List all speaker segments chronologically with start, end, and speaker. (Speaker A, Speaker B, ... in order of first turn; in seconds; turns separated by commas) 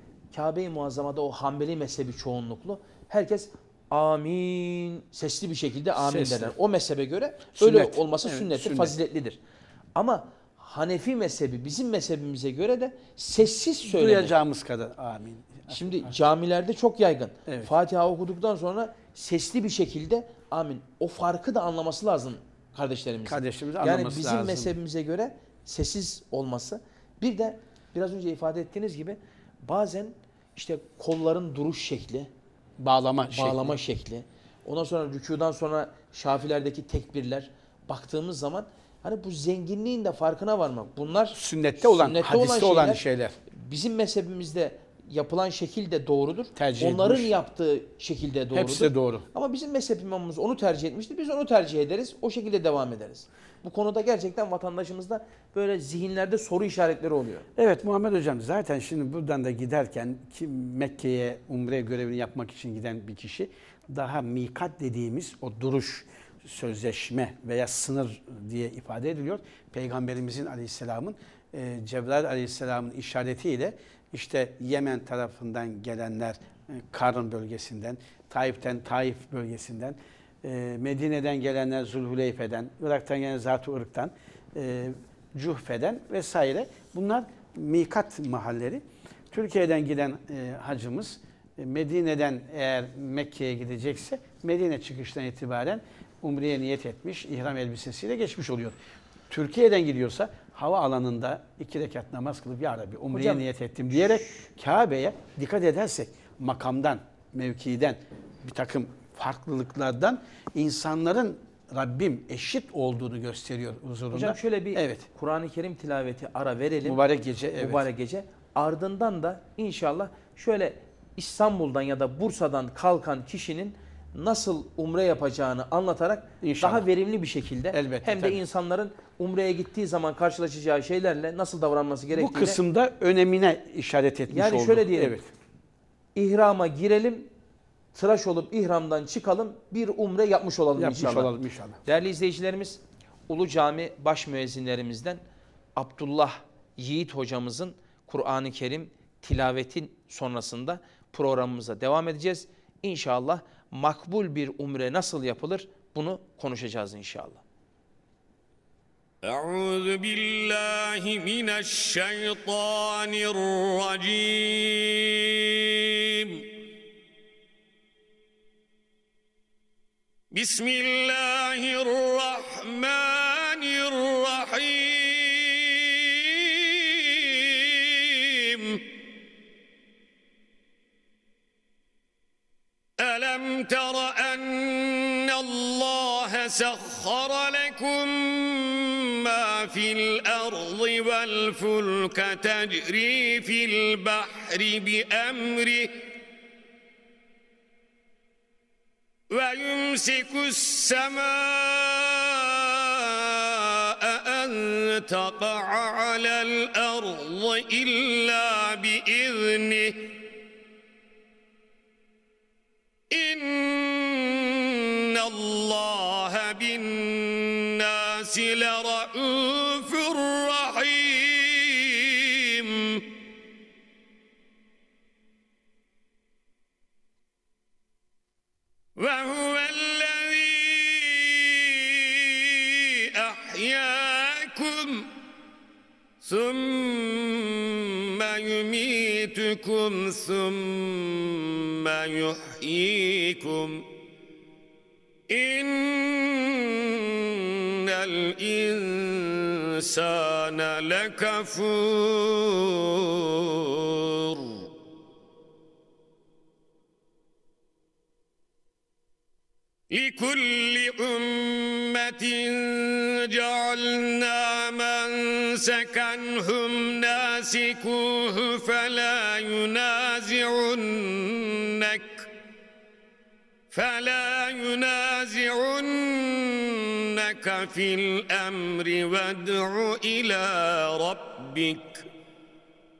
Speaker A: 0.3-9.4, Speaker B: 6.0-6.5, Speaker B: 7.6-9.0, Speaker A: 10.0-14.4, Speaker B: 13.9-16.1, Speaker A: 15.7-32.3, Speaker B: 23.3-24.7, Speaker B: 32.8-33.7, Speaker A: 33.3-57.5, Speaker B: 41.3-43.4, Speaker B: 46.6-47.3, Speaker B: 48.5-49.2, Speaker B: 57.6-98.8, Speaker B: 99.3-115.1, Speaker A: 103.1-103.4, Speaker A: 114.1-117.0, Speaker B: 116.8-117.8, Speaker A: 117.6-132.6, Speaker B: 126.4-126.9, Speaker B: 127.7-128.4, Speaker B: 132.1-135.3, Speaker A: 134.3-135.2, Speaker A: 136.2-137.3, Speaker A: 137.9-141.3, Speaker B: 140.8-141.8, Speaker A: 141.8-145.2, Speaker A: 145.8-157.4, Speaker C: 159.2-166.5, Speaker C: 170.3-178.8, Speaker C: 183.0-195.9, Speaker C: 199.3-210.2, Speaker C: 213.1-223.1, Speaker C: 229.0-235.1, Speaker C: 236.2-243.8, Speaker C: 245.3-254.7, Speaker C: 259.9-272.3, Speaker C: 273.7-282.1